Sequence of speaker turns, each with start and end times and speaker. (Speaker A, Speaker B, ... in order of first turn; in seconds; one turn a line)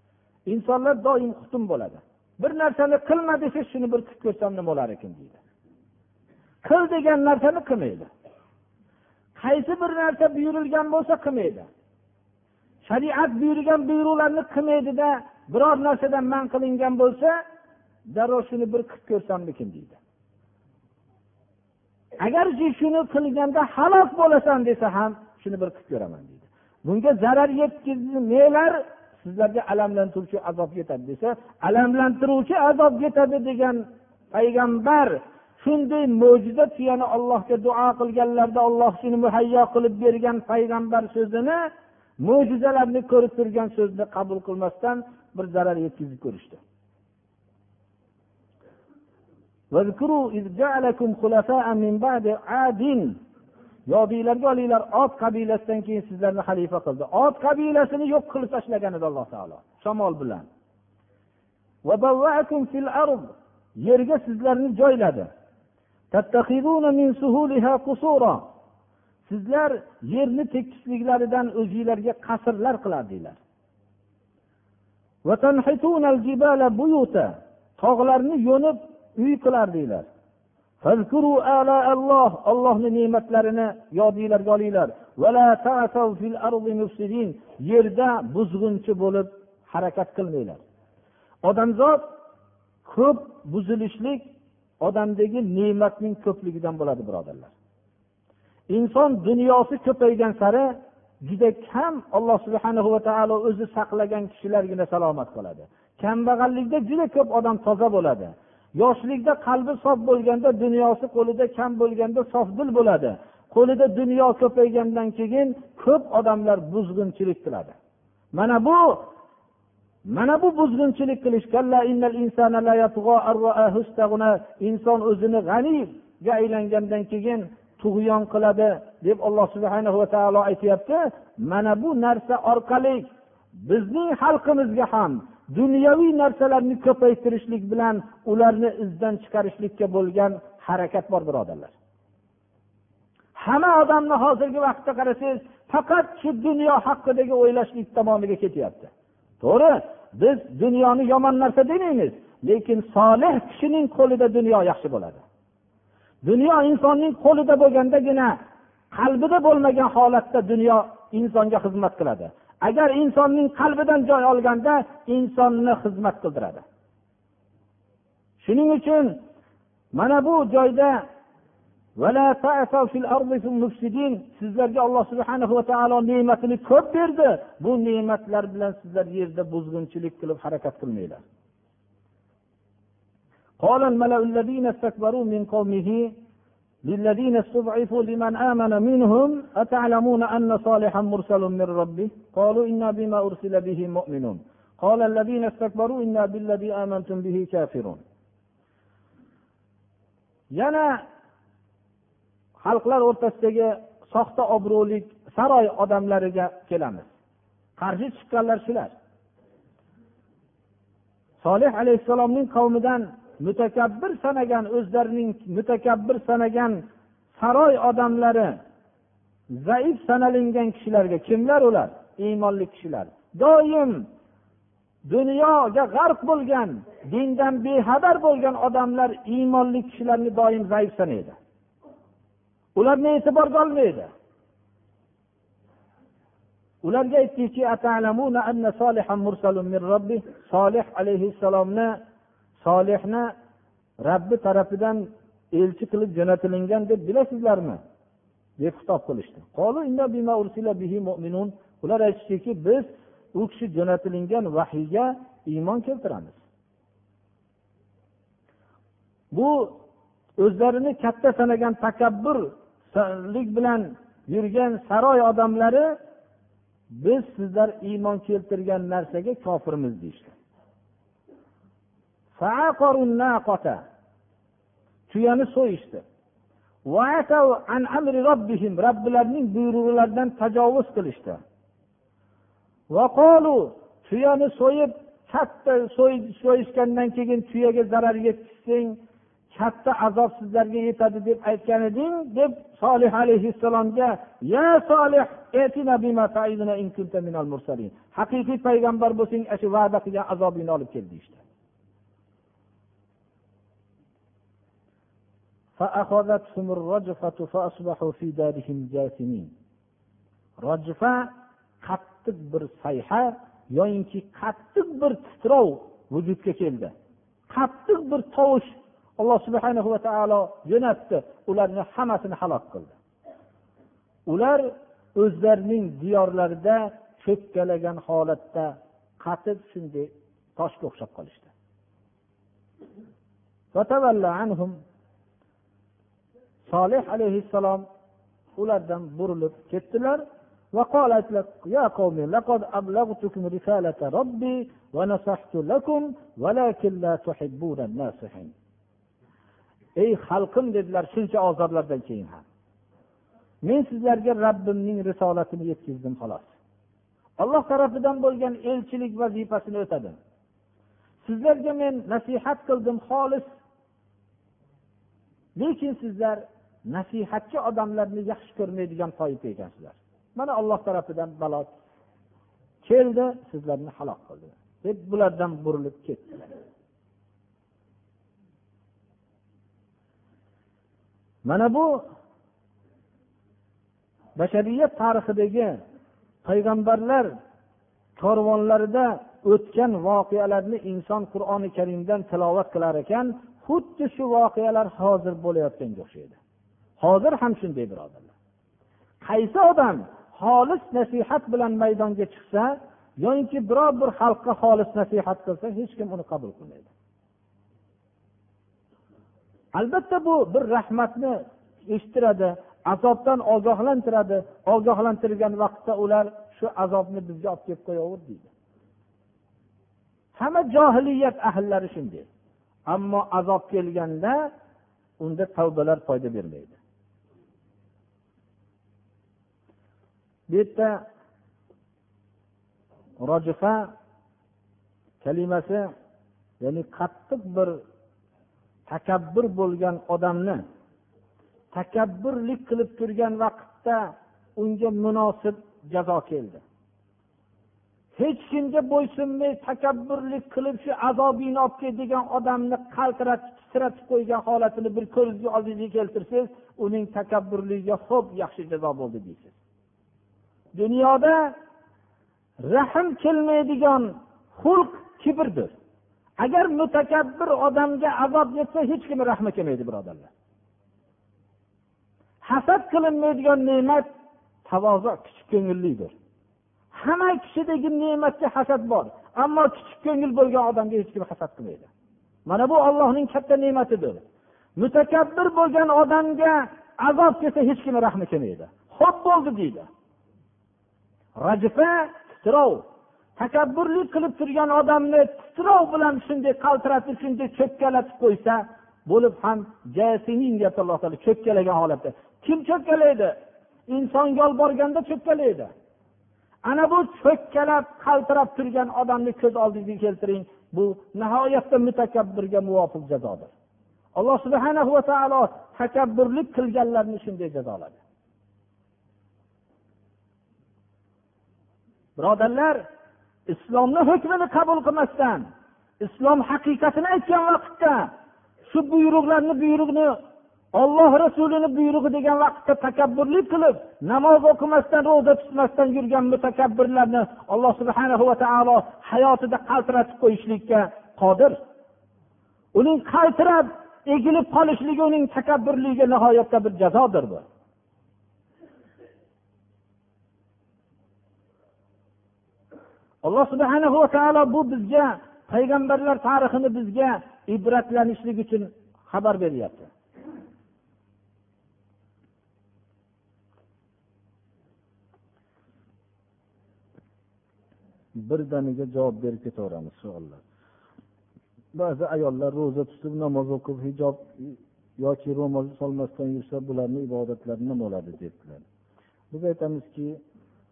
Speaker A: 0.5-5.4
Speaker A: 6.6-8.1
Speaker A: 9.4-11.7
Speaker A: 12.8-17.3
Speaker A: 18.1-20.0
Speaker A: 22.2-41.6
Speaker A: 42.2-46.6
Speaker A: 49.7-53.1
Speaker A: 53.9-60.5
Speaker A: 61.8-63.3
Speaker A: 63.8-65.3
Speaker A: 66.1-68.5
Speaker A: 69.3-73.4
Speaker A: 75.2-80.1
Speaker A: 80.8-90.6
Speaker A: 91.4-92.1
Speaker A: 92.8-94.2
Speaker A: 94.8-97.5
Speaker A: 98.7-100.7
Speaker A: 101.2-117.8
Speaker A: 118.3-119.1
Speaker A: 120.1-133.1
Speaker A: 133.6-141.7
Speaker A: 143.4-155.2
Speaker A: 156.2-158.4
Speaker A: 158.9-166.6
Speaker A: 168.4-169.2
Speaker A: 169.9-171.0
Speaker A: 172.0-181.2
Speaker A: 183.6-186.1
Speaker A: 186.8-198.0
Speaker A: 200.5-201.0
Speaker A: 202.6-207.1
Speaker A: 207.8-208.9
Speaker A: 211.4-216.8
Speaker A: 217.3-218.6
Speaker A: 219.5-224.1
Speaker A: 225.1-231.4
Speaker A: 232.8-234.1
Speaker A: 236.8-242.0
Speaker A: 242.6-243.3
Speaker A: 244.0-247.8
Speaker A: 248.6-256.4
Speaker A: 259.3-259.7
Speaker A: 260.4-265.9
Speaker A: 266.9-270.3
Speaker A: 272.4-273.8
Speaker A: 275.1-276.0
Speaker A: 276.9-281.4
Speaker A: 282.9-289.0
Speaker A: 289.5-301.4
Speaker A: 305.8-309.5
Speaker A: 310.6-311.3
Speaker A: 311.8-316.9
Speaker A: 317.5-322.9
Speaker A: 324.3-331.5
Speaker A: 333.7-334.8
Speaker A: 336.7-337.9
Speaker A: 338.5-340.2
Speaker A: 340.7-348.5
Speaker A: 350.0-352.4
Speaker A: 353.6-356.5
Speaker A: 357.4-360.2
Speaker A: 361.2-363.6
Speaker A: 365.6-371.7
Speaker A: 372.8-376.5
Speaker A: 381.4-382.0
Speaker A: 384.4-385.8
Speaker A: 386.4-387.3
Speaker A: 388.2-396.4
Speaker A: 397.0-398.3
Speaker A: 399.2-406.9
Speaker A: 409.8-418.5
Speaker A: 420.4-422.3
Speaker A: 422.9-424.5
Speaker A: 425.2-426.8
Speaker A: 430.5-431.0
Speaker A: 433.2-433.9
Speaker A: 435.2-435.9
Speaker A: 436.6-437.8
Speaker A: 438.9-440.6
Speaker A: 441.7-446.6
Speaker A: 448.2-459.6
Speaker A: 460.8-461.5
Speaker A: 462.6-465.7
Speaker A: 466.4-470.3
Speaker A: 472.4-474.1
Speaker A: 474.7-476.1
Speaker A: 476.9-481.9
Speaker A: 482.5-484.2
Speaker A: 484.8-489.9
Speaker A: 491.4-492.8
Speaker A: 493.4-503.3
Speaker A: 503.9-505.7
Speaker A: 506.6-513.5
Speaker A: 514.1-518.0
Speaker A: 522.2-522.8
Speaker A: 523.5-525.5
Speaker A: 526.0-528.1
Speaker A: 528.7-530.2
Speaker A: 530.7-541.6
Speaker A: 542.7-547.4
Speaker A: 553.2-559.9
Speaker A: 568.1-570.4
Speaker A: 571.7-578.6
Speaker A: 579.3-580.2